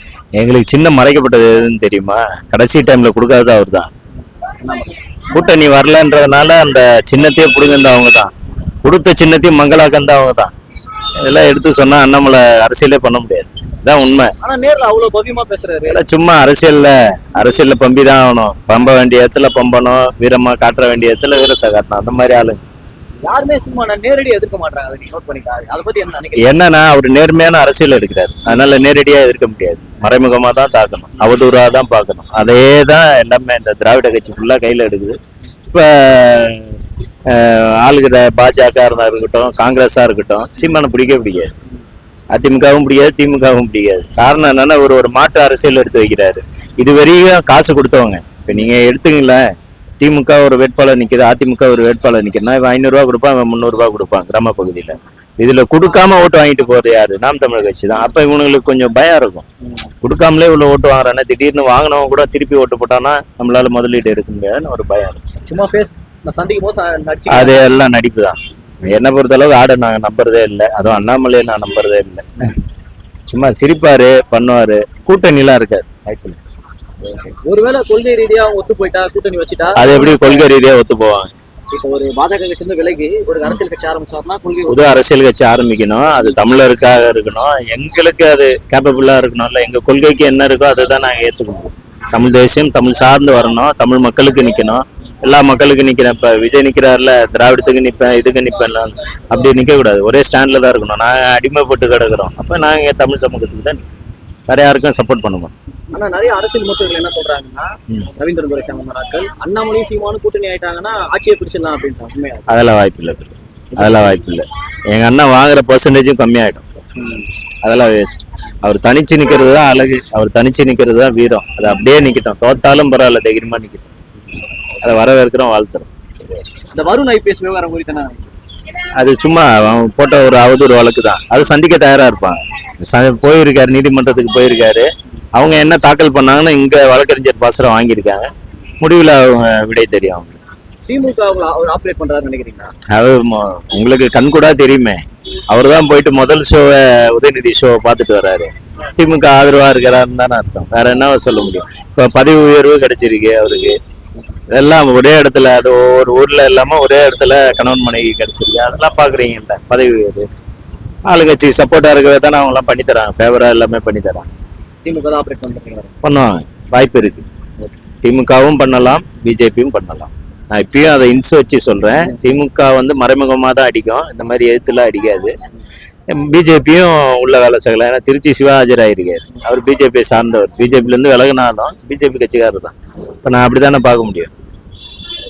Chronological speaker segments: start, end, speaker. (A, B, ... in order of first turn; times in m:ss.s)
0:00.3-0:03.9 A
0:04.6-0:05.0 B
0:05.3-0:08.3 A
0:08.8-0:10.5 A
0:11.2-0:14.3 A
0:14.4-0:16.0 B
0:15.9-0:22.6 A
0:23.2-0:26.5 B
0:26.4-0:41.5 A
0:42.3-0:49.4 A
0:50.0-0:59.4 A
1:00.0-1:05.2 A
1:05.5-1:07.6 B
1:07.3-1:12.5 A
1:13.3-1:16.4 A
1:17.4-1:20.5 B
1:19.8-1:21.3 A
1:21.7-1:24.9 B
1:24.7-1:43.9 A
1:44.5-1:45.5 A
1:45.9-1:52.6 B
1:52.5-1:56.6 A
1:53.7-1:54.3 B
1:57.0-1:57.2 B
1:57.6-2:03.9 A
2:04.8-2:05.9 A
2:06.7-2:08.3 B
2:09.0-2:20.4 A
2:20.8-2:22.7 B
2:22.9-2:33.8 A
2:34.5-2:40.3 A
2:41.1-2:44.3 A
2:44.8-2:45.9 B
2:46.0-2:47.2 A
2:48.0-2:55.3 A
2:52.0-2:52.3 B
2:56.1-3:04.3 A